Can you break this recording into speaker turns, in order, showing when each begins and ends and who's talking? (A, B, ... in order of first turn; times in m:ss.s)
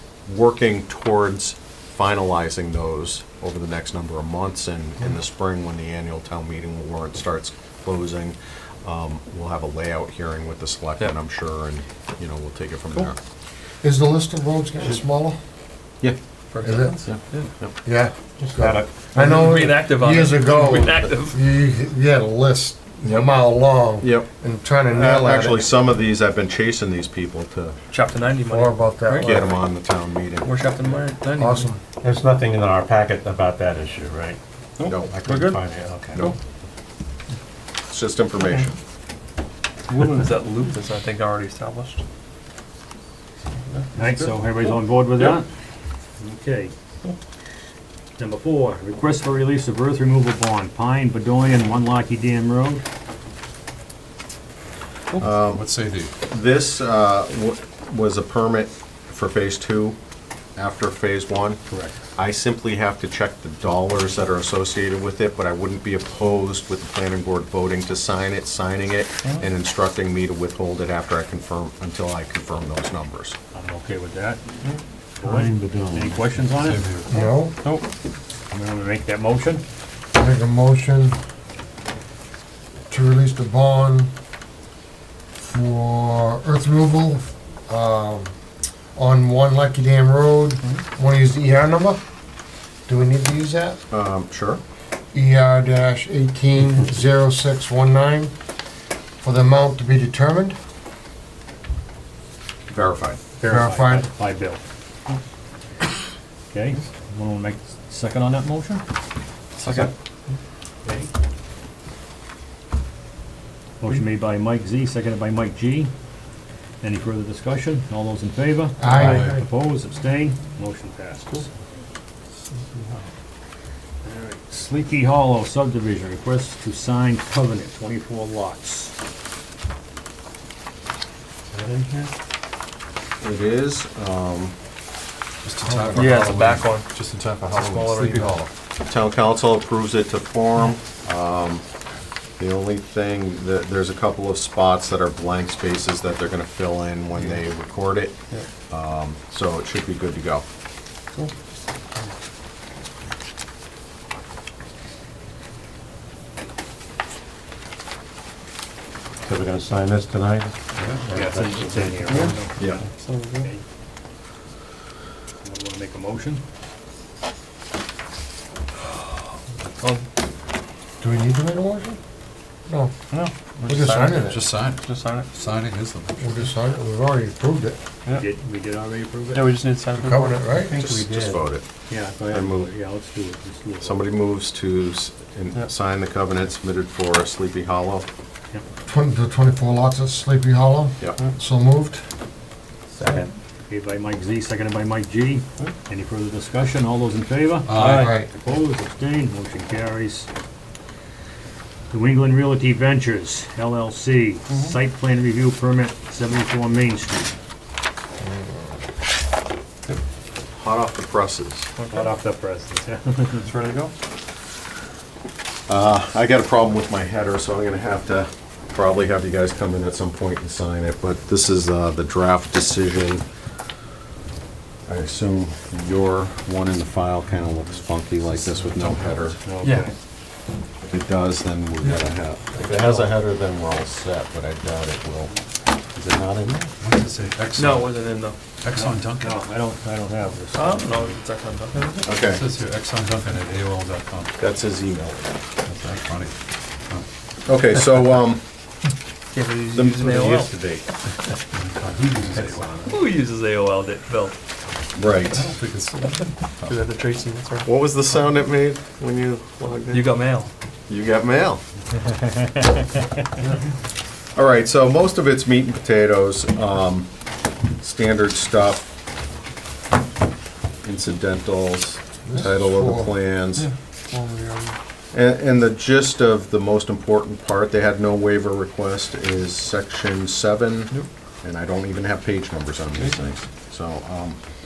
0:00.3-0:13.2 A
0:13.8-0:15.4 B
0:16.5-0:17.5 C
0:16.6-0:17.0 B
0:17.0-0:17.7 A
0:17.8-0:25.7 B
0:18.5-0:19.4 D
0:19.2-0:21.4 C
0:24.0-0:24.3 A
0:24.9-0:27.8 A
0:27.9-0:29.7 C
0:28.4-0:29.5 B
0:29.2-0:30.5 A
0:30.4-0:31.7 C
0:31.4-0:31.8 B
0:32.0-0:36.3 D
0:34.8-0:35.6 C
0:34.9-0:35.1 A
0:37.9-0:38.8 A
0:39.9-0:42.0 C
0:44.0-0:45.5 E
0:46.2-0:46.7 E
0:48.2-0:52.8 E
0:55.2-0:55.7 A
0:55.2-0:56.1 F
0:56.3-1:00.0 A
1:00.6-1:01.6 A
1:01.7-1:02.0 E
1:02.2-1:13.4 A
1:13.5-1:14.4 E
1:15.2-1:17.2 E
1:15.3-1:16.2 D
1:16.4-1:17.3 F
1:17.1-1:17.6 B
1:18.5-1:19.6 E
1:20.2-1:21.2 B
1:22.9-1:24.1 B
1:25.5-1:28.3 B
1:29.0-1:32.0 B
1:32.9-1:33.8 B
1:33.9-1:34.6 A
1:35.1-1:38.3 B
1:39.2-1:40.6 B
1:42.7-1:43.2 A
1:43.4-1:44.6 E
1:43.5-1:44.1 B
1:46.5-1:48.8 E
1:50.8-1:51.1 E
1:53.8-1:55.9 E
1:56.8-2:01.5 E
1:58.8-1:59.3 B
1:59.0-1:59.4 F
2:02.7-2:03.0 D
2:04.0-2:09.0 E
2:11.5-2:12.1 D
2:13.2-2:14.6 A
2:15.4-2:18.5 F
2:15.6-2:16.5 B
2:16.0-2:16.9 C
2:17.5-2:18.4 C
2:18.8-2:21.6 A
2:22.4-2:28.2 A
2:28.7-2:30.5 A
2:39.2-2:42.4 D
2:41.1-2:43.6 E
2:42.1-2:42.4 C
2:42.6-2:42.8 A
2:43.1-2:43.5 C
2:45.4-2:46.4 E
2:49.8-2:50.1 C
2:51.0-2:52.0 B
2:52.7-2:52.9 B
2:53.1-2:55.3 C
2:53.7-2:54.4 B
2:54.2-2:56.2 F
2:56.2-2:57.8 B
2:58.1-2:59.6 E
2:59.3-3:00.5 C
3:00.0-3:00.7 B
3:00.5-3:01.4 D
3:00.7-3:01.6 A
3:01.9-3:04.0 E
3:02.3-3:02.7 A
3:03.8-3:08.1 A
3:08.9-3:12.0 B
3:13.0-3:13.2 C
3:13.1-3:20.3 E
3:17.6-3:18.2 F
3:17.8-3:18.3 B
3:21.9-3:27.4 E
3:28.2-3:28.8 B
3:30.5-3:31.7 A
3:31.8-3:32.1 C
3:31.9-3:33.5 E
3:35.7-3:43.2 A
3:44.9-3:49.4 A
3:48.4-3:49.3 F
3:49.5-3:49.9 E
3:49.6-3:49.9 C
3:50.8-3:55.3 A
3:52.7-3:53.1 E
3:55.9-3:56.7 A
3:56.8-3:58.0 F
3:57.6-3:58.4 C
3:58.6-3:59.4 F
3:58.7-4:01.2 E
4:00.5-4:02.1 C
4:02.0-4:02.4 A
4:02.2-4:04.3 F
4:04.4-4:05.3 A
4:05.6-4:06.3 F
4:07.5-4:08.4 A
4:09.3-4:10.6 C
4:09.7-4:10.9 A
4:11.5-4:13.1 F
4:12.9-4:14.4 C
4:15.0-4:15.5 A
4:15.3-4:16.7 F
4:16.7-4:17.7 C
4:17.6-4:20.1 A
4:19.6-4:20.5 C
4:20.9-4:21.6 A
4:24.4-4:27.1 A
4:27.8-4:28.9 A
4:30.8-4:33.7 A
4:32.3-4:33.1 B
4:33.6-4:34.8 C
4:35.1-4:44.4 A